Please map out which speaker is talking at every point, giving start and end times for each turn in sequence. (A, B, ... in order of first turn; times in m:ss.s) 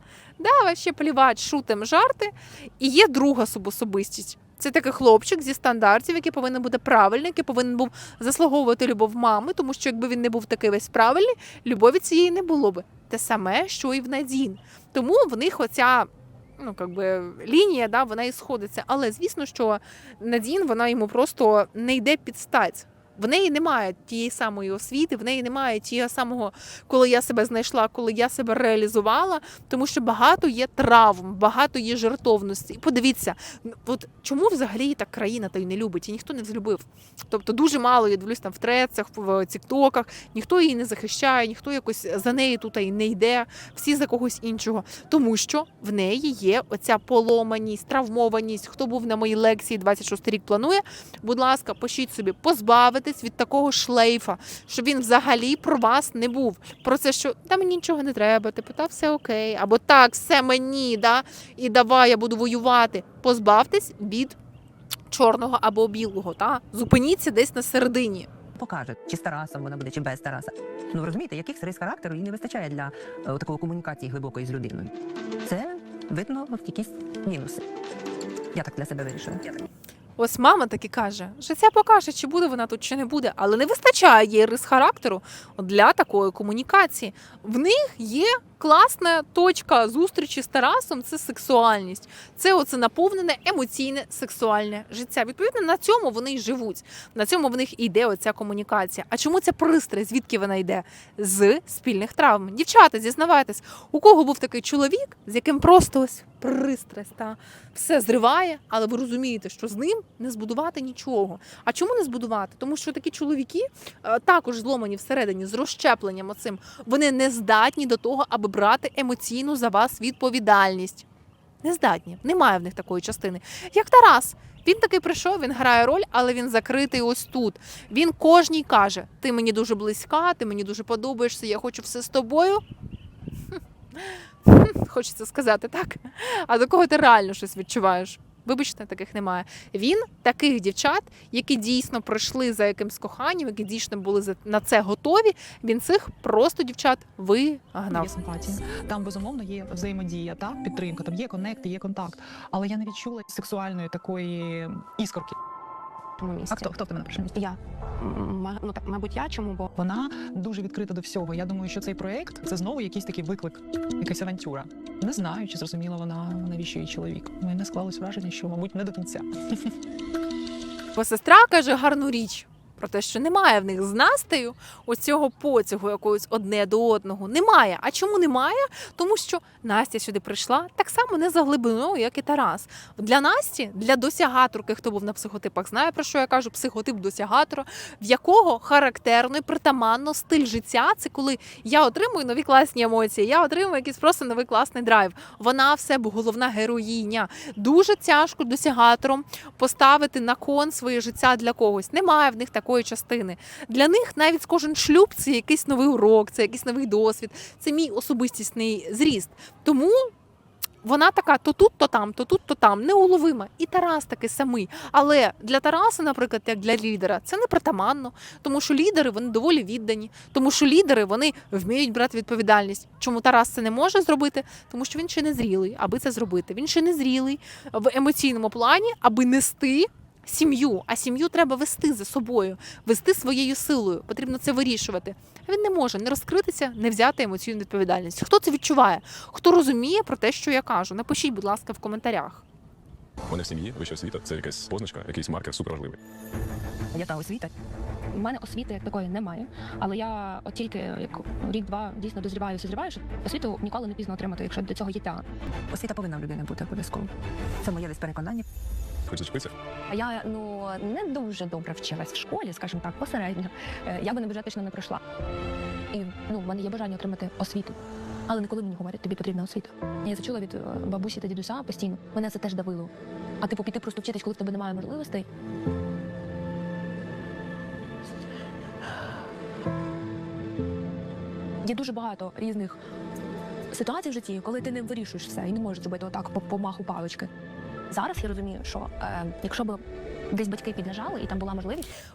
0:00.4-1:04.4 A
1:05.1-1:08.3 A
1:08.6-1:14.9 B
1:15.4-1:17.6 B
1:18.5-1:19.6 B
1:20.2-2:01.0 A
2:01.6-2:12.6 A
2:14.0-2:28.1 A
2:27.9-2:35.4 C
2:36.2-2:36.7 D
2:36.5-2:37.3 C
2:37.3-2:39.7 D
2:39.8-2:49.7 C
2:50.9-3:30.1 A
3:30.8-4:02.4 A
4:03.3-4:06.0 E
4:06.9-4:07.5 B
4:08.1-4:15.2 D
4:15.7-4:16.9 B
4:16.1-4:17.1 D
4:17.6-4:18.4 B
4:19.1-4:19.5 E
4:19.9-4:25.0 D
4:25.9-4:35.3 D
4:41.6-4:42.8 D
4:43.7-4:47.3 D
4:47.9-4:51.9 D